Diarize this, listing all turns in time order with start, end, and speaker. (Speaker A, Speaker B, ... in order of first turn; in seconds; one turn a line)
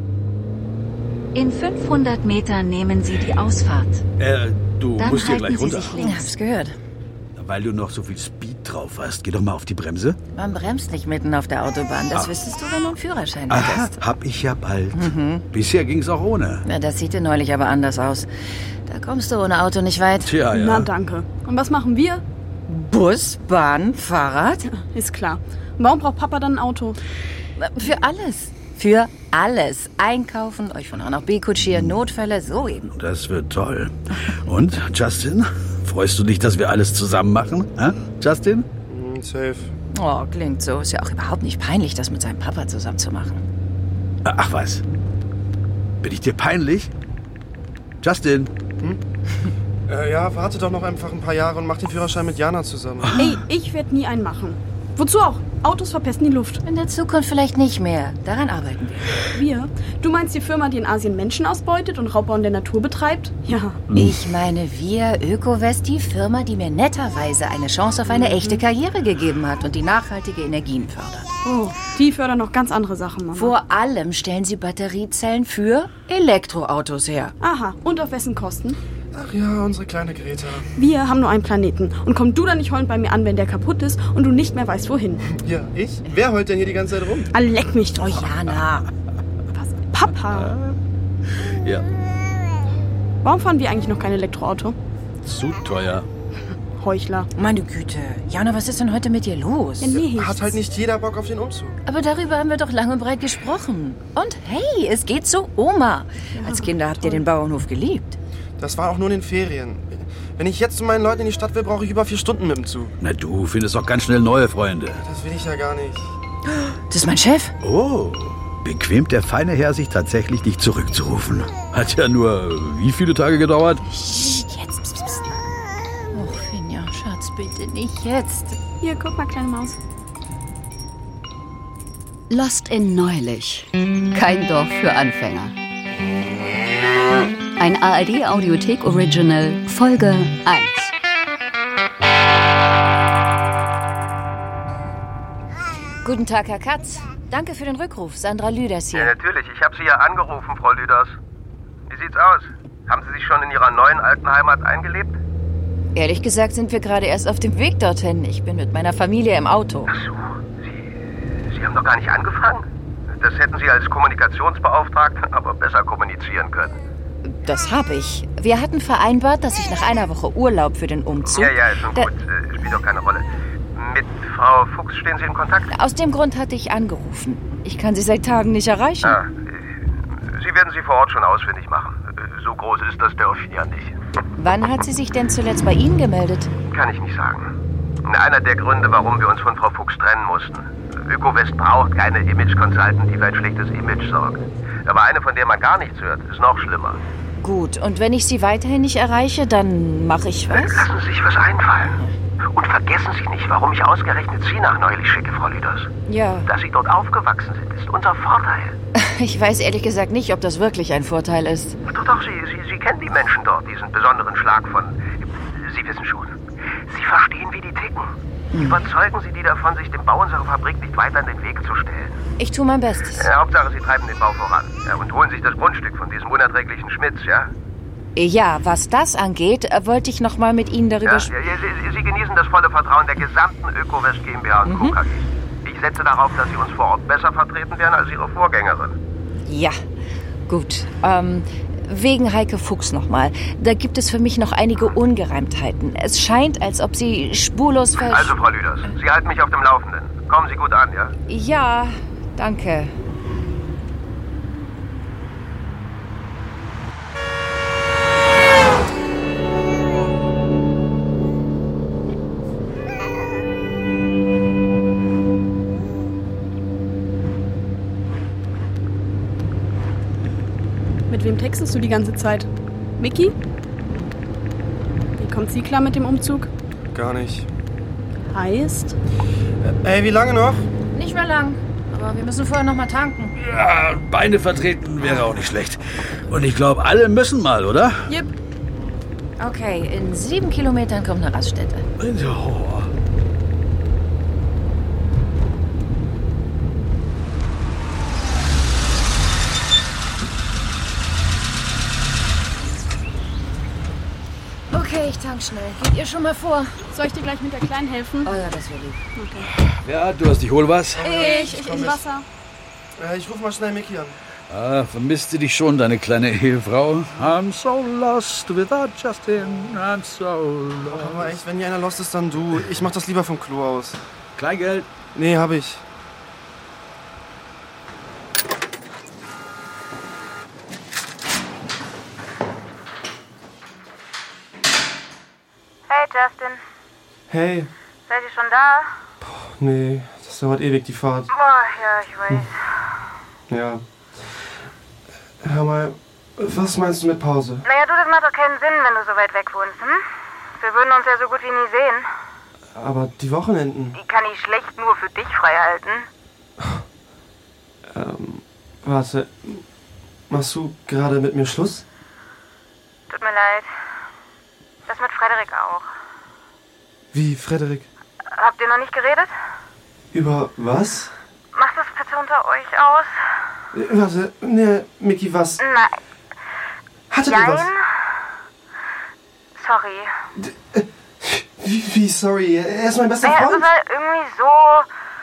Speaker A: 1.3-4.0
Speaker B: 4.2-6.2
Speaker A: 5.0-6.3
Speaker C: 6.0-6.7
Speaker B: 7.4-10.2
Speaker C: 10.3-14.0
Speaker B: 13.5-16.6
Speaker C: 14.9-15.4
Speaker C: 16.6-18.3
Speaker C: 18.9-20.3
Speaker B: 20.2-20.9
Speaker D: 20.5-22.2
Speaker C: 22.7-24.7
Speaker D: 24.8-27.0
Speaker C: 27.6-32.9
Speaker B: 32.9-38.7
Speaker E: 38.9-39.7
Speaker C: 39.9-43.5
Speaker B: 44.2-44.8
Speaker B: 46.0-46.9
Speaker B: 48.0-48.5
Speaker E: 49.9-53.2
Speaker B: 53.0-53.3
Speaker D: 53.2-56.6
Speaker C: 56.6-59.2
Speaker D: 59.3-63.8
Speaker C: 63.9-71.3
Speaker D: 68.1-68.6
Speaker D: 71.4-73.5
Speaker C: 73.3-77.3
Speaker D: 77.4-78.8
Speaker E: 79.1-80.7
Speaker D: 80.8-85.2
Speaker E: 85.4-87.3
Speaker D: 87.3-88.3
Speaker C: 87.9-88.9
Speaker D: 89.5-90.5
Speaker B: 90.3-90.7
Speaker B: 91.5-91.9
Speaker D: 93.2-94.8
Speaker B: 95.2-96.1
Speaker D: 96.8-97.3
Speaker C: 97.4-100.0
Speaker D: 99.8-100.5
Speaker E: 99.9-101.8
Speaker C: 101.9-108.2
Speaker D: 106.4-107.2
Speaker E: 108.6-112.9
Speaker B: 113.0-115.0
Speaker E: 115.0-116.2
Speaker C: 116.9-117.5
Speaker B: 117.6-123.8
Speaker C: 123.8-125.3
Speaker C: 126.1-128.6
Speaker D: 128.8-129.8
Speaker F: 132.3-135.5
Speaker F: 137.6-140.9
Speaker C: 146.0-149.1
Speaker G: 148.9-151.2
Speaker G: 151.9-155.2
Speaker C: 155.9-159.9
Speaker G: 159.9-160.8
Speaker G: 161.5-166.8
Speaker C: 167.2-172.1
Speaker G: 171.3-175.7
Speaker C: 175.7-179.2
Speaker G: 179.0-179.3
Speaker G: 180.3-184.0
Speaker C: 184.4-186.5
Speaker G: 186.7-187.5
Speaker G: 188.0-197.0
Speaker C: 197.4-200.8
Speaker G: 200.5-201.9
Speaker G: 202.5-205.9
Speaker C: 206.1-206.5
Speaker G: 206.5-208.8
Speaker C: 208.9-211.8
Speaker G: 211.8-216.3
Speaker G: 216.9-222.2
Speaker C: 218.5-218.8
Speaker C: 222.4-223.3
Speaker G: 223.2-227.5
Speaker C: 228.2-231.3
Speaker G: 231.0-238.9
Speaker C: 234.7-235.0
Speaker C: 239.5-239.8
Speaker C: 240.5-248.3
Speaker G: 247.9-251.1
Speaker C: 251.3-252.9
Speaker D: 271.1-272.5
Speaker D: 273.0-273.4
Speaker D: 275.2-276.5
Speaker E: 276.9-277.5
Speaker D: 278.3-278.9
Speaker E: 279.6-280.7
Speaker C: 280.9-283.3
Speaker B: 283.4-288.0
Speaker C: 285.0-285.4
Speaker C: 289.4-291.9
Speaker B: 292.0-292.9
Speaker C: 304.7-306.7
Speaker D: 306.9-308.3
Speaker C: 308.2-309.0
Speaker D: 309.1-309.5
Speaker B: 309.6-311.1
Speaker E: 310.9-312.1
Speaker D: 311.1-312.2
Speaker E: 313.0-314.2
Speaker B: 314.5-321.3
Speaker E: 320.9-324.0
Speaker B: 324.4-324.9
Speaker E: 325.1-325.8
Speaker H: 335.9-336.6
Speaker E: 337.3-337.7
Speaker H: 338.1-338.9
Speaker E: 339.2-341.3
Speaker H: 341.3-342.5
Speaker E: 343.5-344.2
Speaker E: 345.4-347.6
Speaker H: 347.6-350.0
Speaker H: 350.6-352.1
Speaker E: 352.8-354.0
Speaker H: 353.9-356.1
Speaker E: 357.9-359.6
Speaker E: 360.3-361.9
Speaker H: 363.1-363.7
Speaker H: 364.9-365.9
Speaker E: 367.1-367.9
Speaker H: 368.3-369.3
Speaker E: 370.1-371.1
Speaker H: 371.5-373.1
Speaker E: 373.7-375.6
Speaker H: 375.6-376.0
Speaker E: 377.1-377.7
Speaker H: 377.3-377.8
Speaker H: 379.6-380.1
Speaker E: 380.4-383.7
Speaker H: 383.2-384.9